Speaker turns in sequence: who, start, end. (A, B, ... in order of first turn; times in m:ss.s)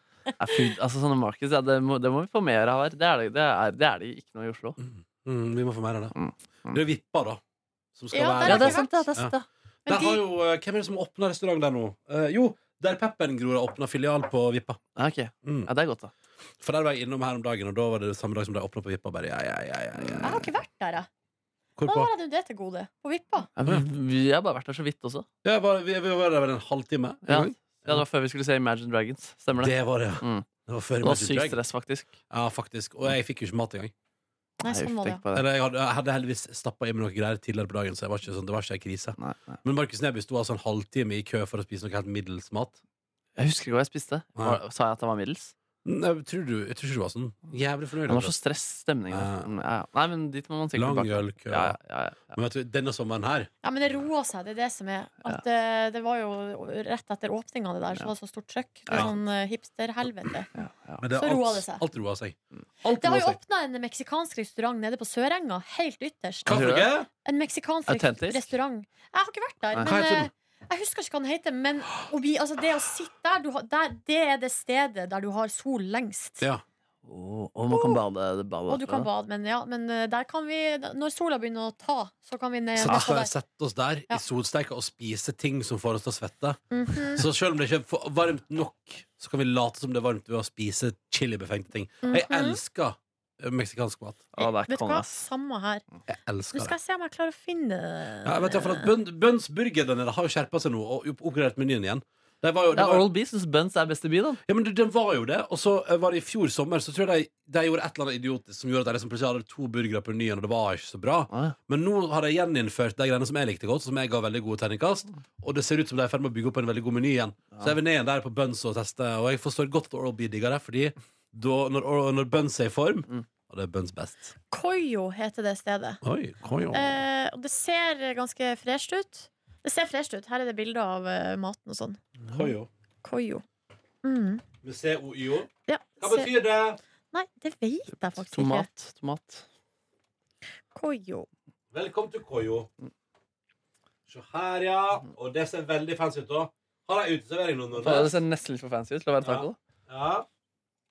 0:00.4-0:04.8 A
0:04.8-0:06.2 B
0:06.2-0:06.8 A
0:06.7-0:07.4 B
0:08.0-0:09.3 B
0:08.1-0:09.2 C
0:08.4-0:09.4 A
0:09.9-0:10.2 C
0:09.9-0:14.8 B
0:15.0-0:16.1 A
0:15.4-0:15.7 B
0:16.6-0:20.4 B
0:20.2-0:21.1 C
0:21.8-0:22.1 B
0:21.8-0:23.5 C
0:23.6-0:25.3 A
0:25.4-0:28.0 B
0:27.3-0:30.4 A
0:29.6-0:31.6 B
0:31.0-0:32.1 A
0:32.3-0:33.9 B
0:34.6-0:35.2 C
0:34.6-0:35.4 A
0:35.3-0:42.8 B
0:39.2-0:39.6 A
0:43.4-0:45.5 A
0:45.8-0:48.4 B
0:48.0-0:52.4 A
0:49.1-0:49.5 B
0:50.7-0:51.8 B
0:52.3-0:53.5 B
0:53.6-1:00.5 C
1:00.6-1:01.0 A
1:01.0-1:03.4 B
1:01.1-1:01.8 C
1:03.0-1:06.6 C
1:06.5-1:06.9 A
1:06.5-1:07.1 B
1:07.2-1:16.4 C
1:07.9-1:08.5 A
1:09.8-1:10.3 B
1:17.0-1:19.1 A
1:17.7-1:18.0 C
1:18.7-1:23.3 C
1:22.8-1:34.2 B
1:26.7-1:27.2 C
1:32.0-1:32.6 C
1:34.4-1:35.3 A
1:34.4-1:35.8 C
1:36.1-1:36.7 B
1:36.5-1:38.9 C
1:38.2-1:43.1 B
1:42.7-1:44.4 A
1:44.5-2:04.3 B
1:51.3-1:51.6 A
2:04.5-2:06.0 C
2:06.0-2:07.0 B
2:06.7-2:12.0 C
2:12.2-2:12.5 A
2:12.3-2:12.7 B
2:13.0-2:13.4 C
2:14.0-2:14.4 C
2:14.6-2:15.5 B
2:15.7-2:16.3 C
2:16.0-2:16.8 B
2:17.1-2:18.7 C
2:17.9-2:19.4 A
2:20.8-2:21.3 C
2:21.7-2:22.7 B
2:24.1-2:28.2 B
2:27.8-2:29.6 A
2:29.2-2:30.3 B